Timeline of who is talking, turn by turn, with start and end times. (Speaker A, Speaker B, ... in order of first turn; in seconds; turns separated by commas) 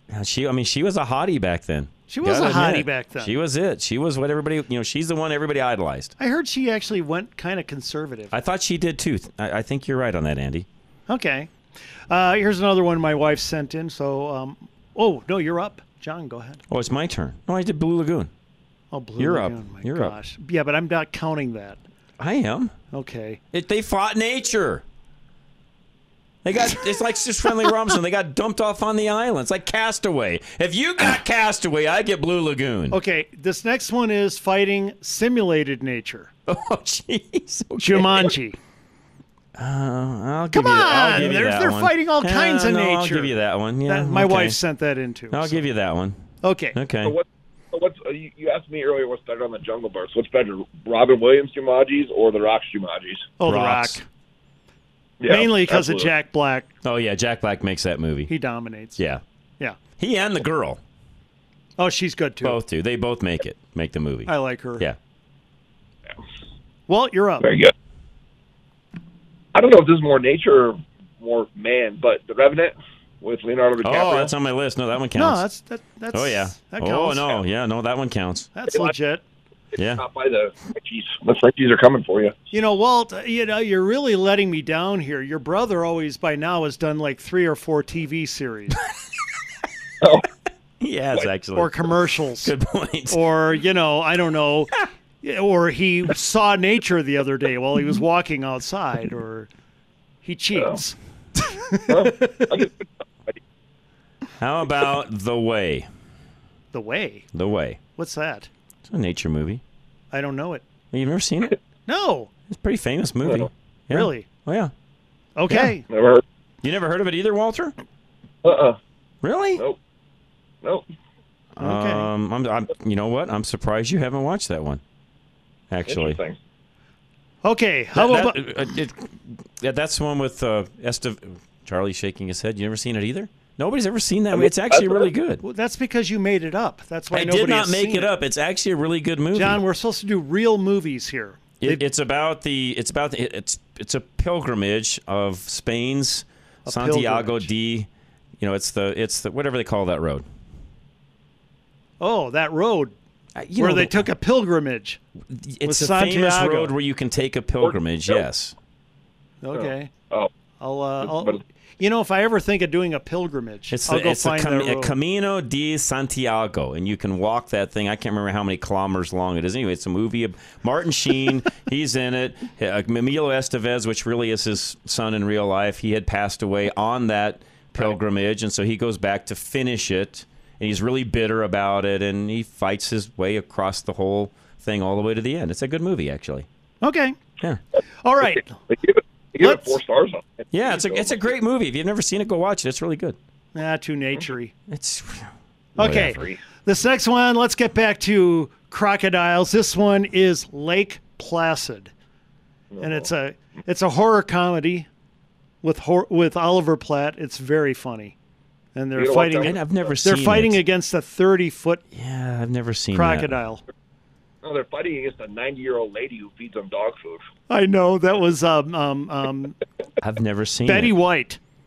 Speaker A: 0.1-6.1, Speaker B: 2.1-3.3, Speaker B: 6.2-8.3, Speaker A: 8.3-10.7, Speaker B: 11.1-11.5, Speaker B: 12.1-16.6, Speaker A: 16.7-18.3, Speaker B: 18.9-21.8, Speaker A: 19.2-20.1, Speaker A: 22.2-22.7, Speaker B: 22.9-23.4, Speaker A: 23.5-24.8, Speaker A: 26.4-33.0, Speaker B: 32.9-36.3, Speaker A: 36.5-38.3, Speaker B: 37.8-38.6, Speaker A: 39.6-44.6, Speaker B: 40.5-43.3, Speaker B: 43.9-45.6, Speaker A: 45.3-46.2, Speaker B: 46.4-46.8, Speaker A: 46.7-47.1, Speaker C: 47.0-53.3, Speaker B: 53.4-54.0, Speaker A: 53.4-54.0, Speaker C: 55.2-56.1, Speaker B: 55.3-56.7, Speaker A: 56.8-58.3, Speaker B: 58.3-59.0, Speaker A: 60.0-60.8, Speaker B: 61.8-62.6, Speaker A: 62.4-65.0, Speaker B: 64.2-64.8, Speaker B: 66.9-67.5, Speaker C: 67.4-67.7, Speaker C: 69.5-74.3, Speaker A: 73.8-75.4, Speaker B: 75.2-77.3, Speaker A: 76.1-78.5, Speaker B: 78.5-79.2, Speaker A: 79.7-80.0, Speaker C: 80.0-82.3, Speaker B: 82.5-88.8, Speaker C: 90.0-90.2, Speaker A: 90.8-91.8, Speaker B: 91.5-92.5, Speaker A: 92.4-93.2, Speaker B: 93.1-99.5, Speaker B: 100.2-101.0, Speaker B: 101.7-102.3, Speaker C: 101.9-102.7, Speaker A: 104.4-105.9, Speaker B: 106.7-107.2, Speaker A: 107.3-107.8, Speaker B: 108.0-108.5, Speaker A: 108.9-109.6, Speaker B: 110.1-110.6, Speaker A: 110.9-111.5, Speaker B: 111.9-112.3, Speaker A: 112.5-114.7, Speaker B: 113.9-114.3, Speaker B: 115.4-115.8, Speaker C: 115.9-116.2, Speaker A: 116.6-117.7, Speaker C: 118.4-118.8, Speaker A: 119.2-119.6, Speaker A: 121.6-124.8, Speaker B: 121.6-122.1, Speaker A: 125.7-126.2, Speaker C: 125.9-126.4, Speaker B: 127.4-128.4, Speaker A: 128.0-135.4, Speaker C: 134.3-135.1, Speaker B: 135.4-138.1, Speaker A: 137.1-139.6, Speaker B: 139.3-141.8, Speaker A: 141.6-147.9, Speaker B: 146.7-147.5, Speaker A: 148.4-150.2, Speaker B: 152.0-152.9, Speaker A: 153.3-154.1, Speaker B: 153.6-155.0, Speaker A: 155.3-158.5, Speaker B: 155.7-156.7, Speaker C: 157.6-158.2, Speaker B: 159.4-159.9, Speaker C: 159.5-160.3, Speaker B: 160.6-164.9, Speaker C: 161.0-161.4, Speaker A: 163.7-186.4, Speaker B: 186.8-187.1, Speaker B: 188.0-188.6, Speaker C: 188.3-191.3, Speaker B: 189.4-189.8, Speaker A: 190.5-193.2, Speaker B: 193.5-194.5, Speaker A: 194.7-196.2, Speaker C: 195.8-196.4, Speaker B: 195.8-201.9, Speaker C: 202.7-203.0, Speaker B: 202.8-204.9, Speaker B: 205.6-208.1, Speaker B: 208.7-211.8, Speaker C: 208.9-209.6, Speaker A: 209.4-210.6, Speaker A: 211.9-213.3, Speaker B: 212.9-213.6, Speaker C: 214.4-217.2, Speaker B: 217.5-219.6, Speaker A: 220.0-220.9, Speaker B: 220.7-221.4